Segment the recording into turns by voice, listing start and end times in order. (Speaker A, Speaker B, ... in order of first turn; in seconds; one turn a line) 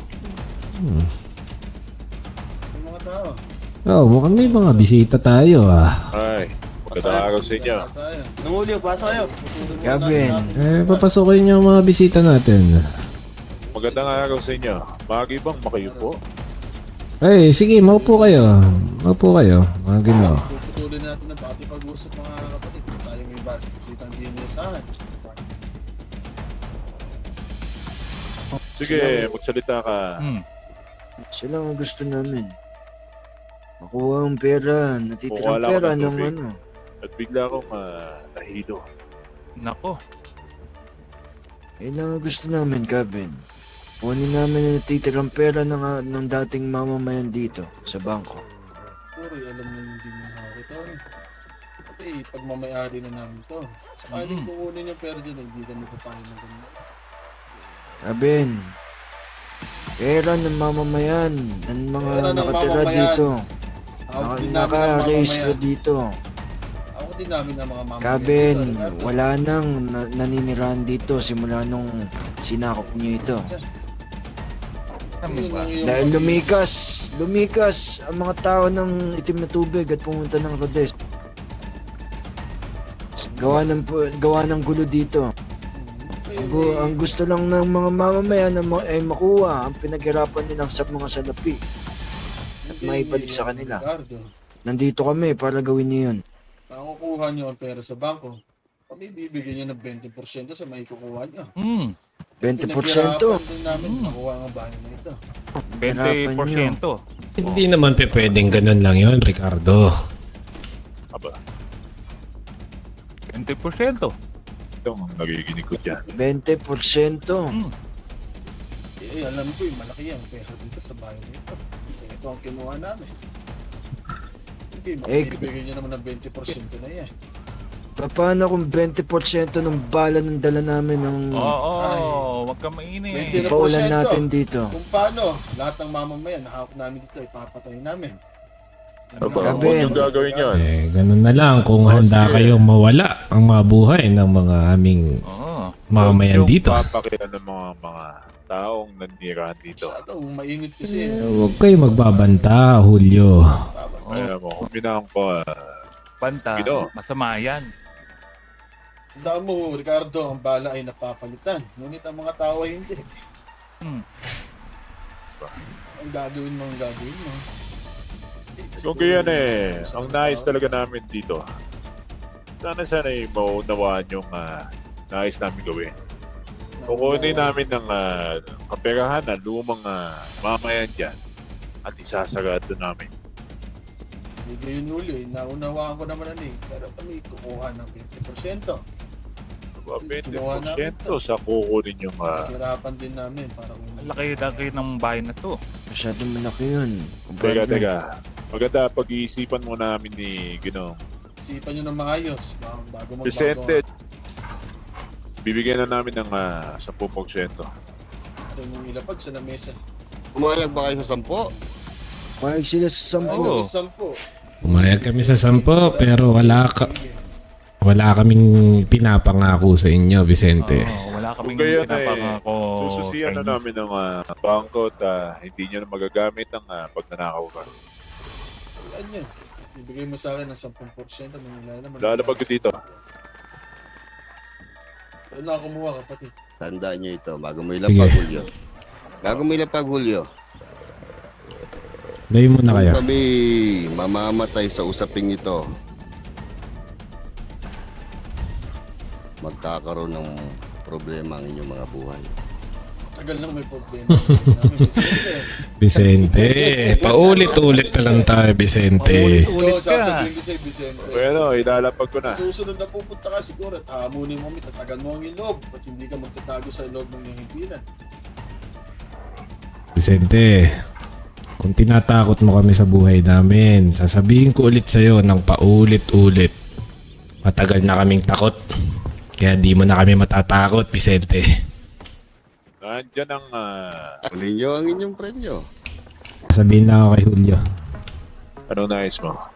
Speaker A: 0.7-1.1
Speaker B: 2.7-3.4
Speaker A: 3.9-6.1
Speaker B: 4.2-5.1
Speaker C: 6.1-7.9
Speaker B: 6.9-11.1
Speaker D: 9.8-10.5
Speaker A: 10.5-12.8
Speaker B: 13.5-14.7
Speaker C: 13.7-16.1
Speaker B: 15.7-16.1
Speaker A: 17.2-20.4
Speaker B: 17.8-18.7
Speaker B: 20.1-25.7
Speaker C: 28.8-30.0
Speaker D: 28.8-29.3
Speaker D: 31.4-32.5
Speaker D: 33.8-36.5
Speaker C: 35.3-36.3
Speaker C: 37.0-37.8
Speaker C: 38.4-38.8
Speaker E: 39.6-40.0
Speaker D: 41.8-43.4
Speaker D: 44.0-48.4
Speaker B: 49.2-51.0
Speaker B: 51.9-56.9
Speaker E: 54.1-54.5
Speaker D: 58.1-58.6
Speaker D: 60.0-63.3
Speaker B: 62.0-63.3
Speaker B: 64.1-65.6
Speaker D: 64.2-66.0
Speaker B: 67.0-69.2
Speaker D: 68.0-71.9
Speaker D: 72.4-73.5
Speaker B: 72.8-73.6
Speaker E: 75.2-75.7
Speaker B: 75.2-76.5
Speaker D: 75.8-80.9
Speaker D: 83.2-85.2
Speaker B: 85.7-87.1
Speaker D: 86.4-91.6
Speaker B: 92.6-94.3
Speaker D: 92.7-93.8
Speaker D: 94.7-96.2
Speaker B: 96.7-98.3
Speaker B: 98.9-101.5
Speaker E: 101.6-101.9
Speaker D: 102.4-103.4
Speaker B: 102.5-105.2
Speaker E: 103.7-104.1
Speaker D: 105.8-106.8
Speaker E: 105.8-107.0
Speaker A: 107.4-109.9
Speaker E: 113.3-114.1
Speaker C: 114.8-116.0
Speaker D: 116.1-117.5
Speaker B: 119.0-123.1
Speaker B: 124.7-127.1
Speaker D: 125.1-125.5
Speaker D: 128.0-131.5
Speaker E: 131.4-133.5
Speaker B: 131.8-132.2
Speaker B: 133.1-138.2
Speaker D: 133.4-134.7
Speaker B: 139.1-140.5
Speaker E: 139.2-139.8
Speaker C: 139.2-140.7
Speaker D: 139.4-140.1
Speaker A: 140.5-145.2
Speaker C: 141.8-142.6
Speaker E: 145.3-145.7
Speaker A: 145.9-146.8
Speaker C: 146.0-149.9
Speaker B: 149.7-154.3
Speaker A: 151.2-153.5
Speaker C: 154.1-155.3
Speaker E: 156.2-157.7
Speaker C: 156.6-156.8
Speaker B: 159.2-163.1
Speaker B: 166.0-167.4
Speaker B: 168.6-170.8
Speaker C: 168.8-171.4
Speaker C: 172.6-174.4
Speaker C: 175.1-175.9
Speaker B: 176.8-177.5
Speaker C: 176.9-178.0
Speaker C: 178.7-181.1
Speaker C: 181.9-183.1
Speaker B: 184.4-188.8
Speaker C: 189.8-192.3
Speaker B: 190.0-191.2
Speaker B: 192.4-194.7
Speaker E: 194.0-195.5
Speaker D: 195.9-197.9
Speaker C: 197.4-198.0
Speaker C: 198.5-201.0
Speaker B: 201.4-203.8
Speaker C: 203.2-203.8
Speaker C: 205.4-207.7
Speaker B: 208.5-209.8
Speaker F: 210.3-211.5
Speaker B: 210.5-211.6
Speaker D: 212.4-213.5
Speaker B: 213.2-217.3
Speaker E: 213.3-213.7
Speaker A: 214.6-216.9
Speaker A: 217.8-220.9
Speaker E: 220.6-223.6
Speaker C: 221.4-222.2
Speaker C: 222.8-227.7
Speaker B: 228.8-233.0
Speaker C: 232.0-232.7
Speaker B: 235.3-236.3
Speaker F: 236.6-238.5
Speaker A: 237.9-238.2
Speaker F: 239.2-240.2
Speaker A: 242.3-243.0
Speaker F: 242.7-243.3
Speaker F: 243.9-245.6
Speaker F: 249.4-252.3
Speaker B: 253.1-255.5
Speaker A: 255.8-259.5
Speaker B: 256.2-258.4
Speaker F: 256.4-258.2
Speaker E: 259.0-260.3
Speaker B: 259.4-261.4
Speaker C: 261.1-262.4
Speaker B: 262.3-267.8
Speaker A: 269.9-270.6
Speaker A: 271.6-276.5
Speaker A: 277.4-278.6
Speaker A: 279.4-281.4
Speaker C: 282.8-284.2
Speaker F: 284.3-285.6
Speaker A: 286.5-287.6
Speaker C: 288.7-289.4